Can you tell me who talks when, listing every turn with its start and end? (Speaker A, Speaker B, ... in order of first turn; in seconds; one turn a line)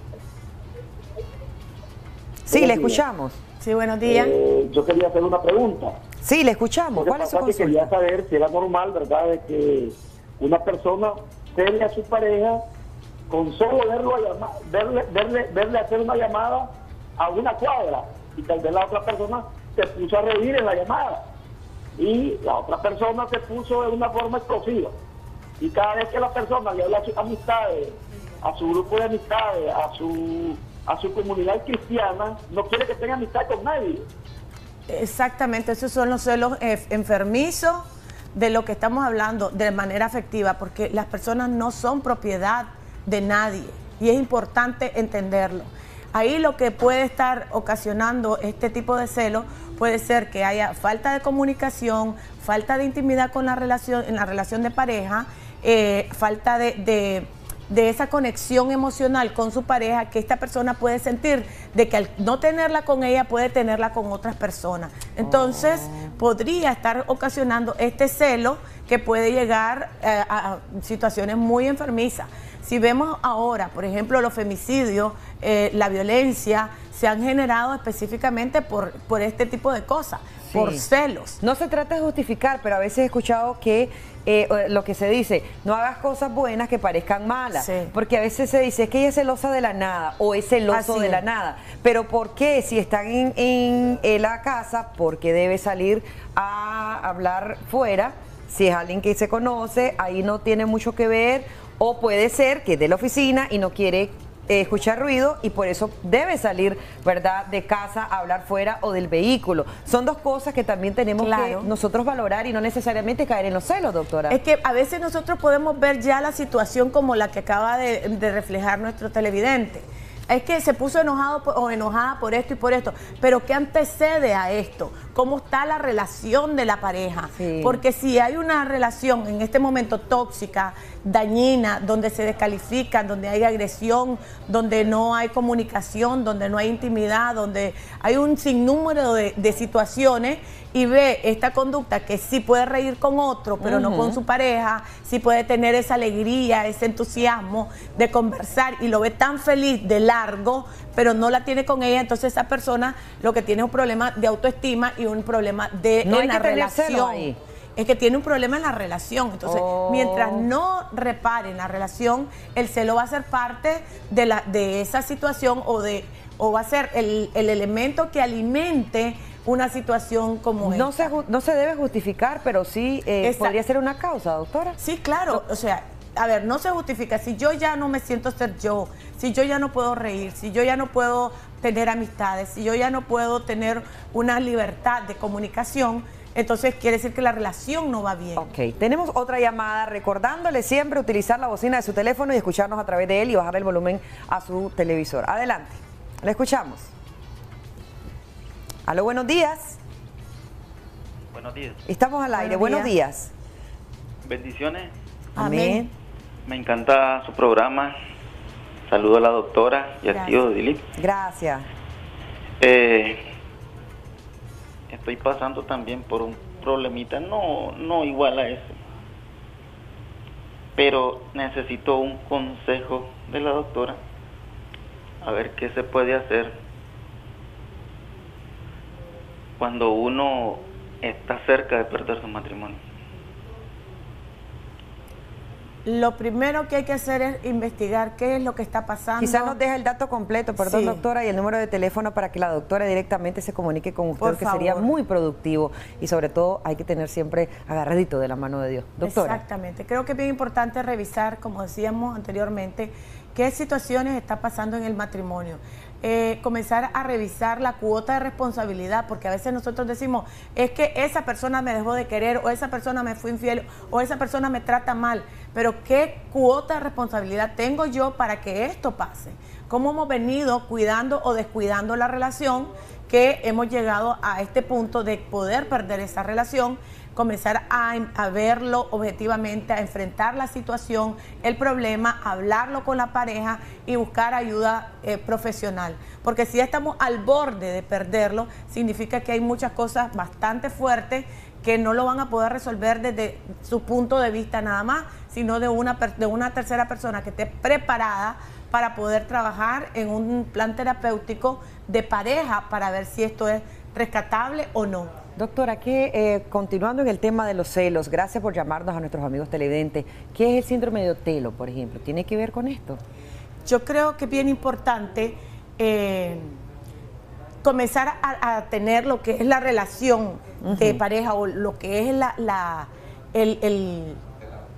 Speaker A: 2.5-3.4
Speaker B: 2.5-3.0
Speaker C: 3.6-4.3
Speaker B: 4.0-6.0
Speaker A: 6.2-7.9
Speaker B: 6.9-12.6
Speaker B: 13.3-21.2
Speaker B: 22.0-24.9
Speaker B: 25.6-34.0
Speaker C: 34.9-81.4
Speaker A: 65.2-66.1
Speaker A: 80.5-80.8
Speaker A: 81.4-114.4
Speaker C: 87.5-87.9
Speaker C: 90.7-91.2
Speaker C: 111.2-111.7
Speaker C: 114.3-171.1
Speaker A: 127.3-127.8
Speaker A: 143.6-144.2
Speaker A: 156.0-157.4
Speaker A: 159.4-160.5
Speaker A: 170.6-174.8
Speaker C: 173.2-173.5
Speaker C: 174.8-188.4
Speaker A: 188.4-196.9
Speaker A: 198.8-199.8
Speaker D: 201.3-201.8
Speaker A: 201.8-203.3
Speaker C: 202.3-202.9
Speaker D: 204.2-204.9
Speaker C: 205.3-205.9
Speaker A: 205.4-205.9
Speaker D: 206.4-207.9
Speaker D: 208.9-210.8
Speaker C: 210.1-210.4
Speaker A: 210.9-211.7
Speaker D: 212.6-213.2
Speaker D: 214.9-218.8
Speaker D: 220.8-224.0
Speaker D: 225.2-226.5
Speaker D: 229.6-232.8
Speaker C: 235.8-239.6
Speaker A: 239.2-249.4
Speaker C: 240.6-241.0
Speaker C: 244.2-244.9
Speaker C: 249.0-305.1
Speaker A: 305.4-313.0
Speaker C: 313.6-316.6
Speaker C: 317.6-324.2
Speaker A: 320.6-321.0